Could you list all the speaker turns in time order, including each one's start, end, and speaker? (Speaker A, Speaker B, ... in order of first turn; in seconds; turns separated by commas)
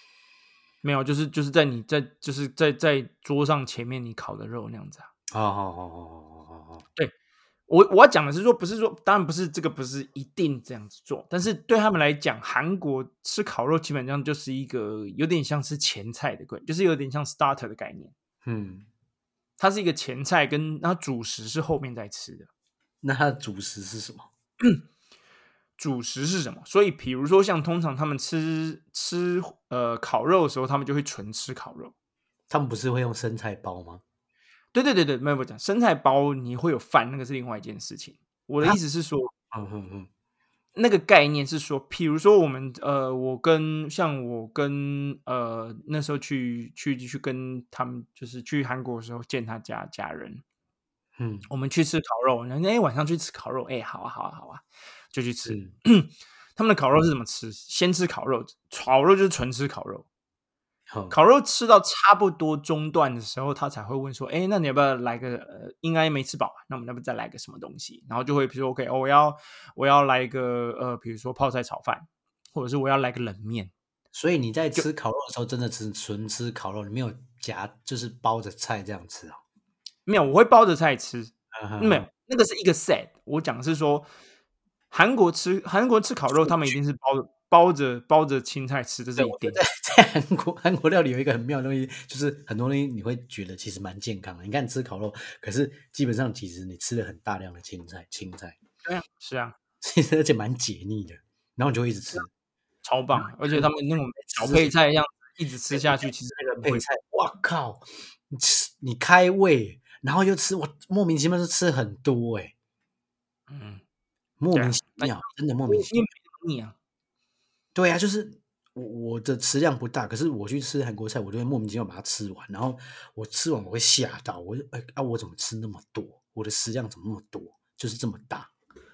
Speaker A: 0.8-5.1, Speaker B: 5.3-6.8, Speaker A: 7.7-18.1, Speaker B: 18.4-18.9, Speaker A: 19.6-22.5, Speaker B: 23.0-24.3, Speaker A: 25.8-31.9, Speaker B: 32.5-34.0, Speaker A: 34.7-39.3, Speaker B: 39.5-40.1, Speaker A: 40.8-50.4, Speaker B: 51.2-51.5, Speaker A: 51.5-60.1, Speaker B: 55.5-55.7, Speaker B: 60.9-61.1, Speaker A: 61.1-73.7, Speaker B: 74.1-79.4, Speaker A: 80.0-84.1, Speaker B: 81.5-82.1, Speaker A: 84.9-89.6, Speaker B: 86.3-86.8, Speaker B: 89.2-98.6, Speaker A: 98.8-99.5, Speaker B: 99.8-102.3, Speaker A: 102.8-106.8, Speaker B: 103.1-104.7, Speaker B: 105.7-112.5, Speaker A: 113.5-113.8, Speaker B: 114.4-115.9, Speaker A: 114.5-116.8, Speaker B: 117.7-128.5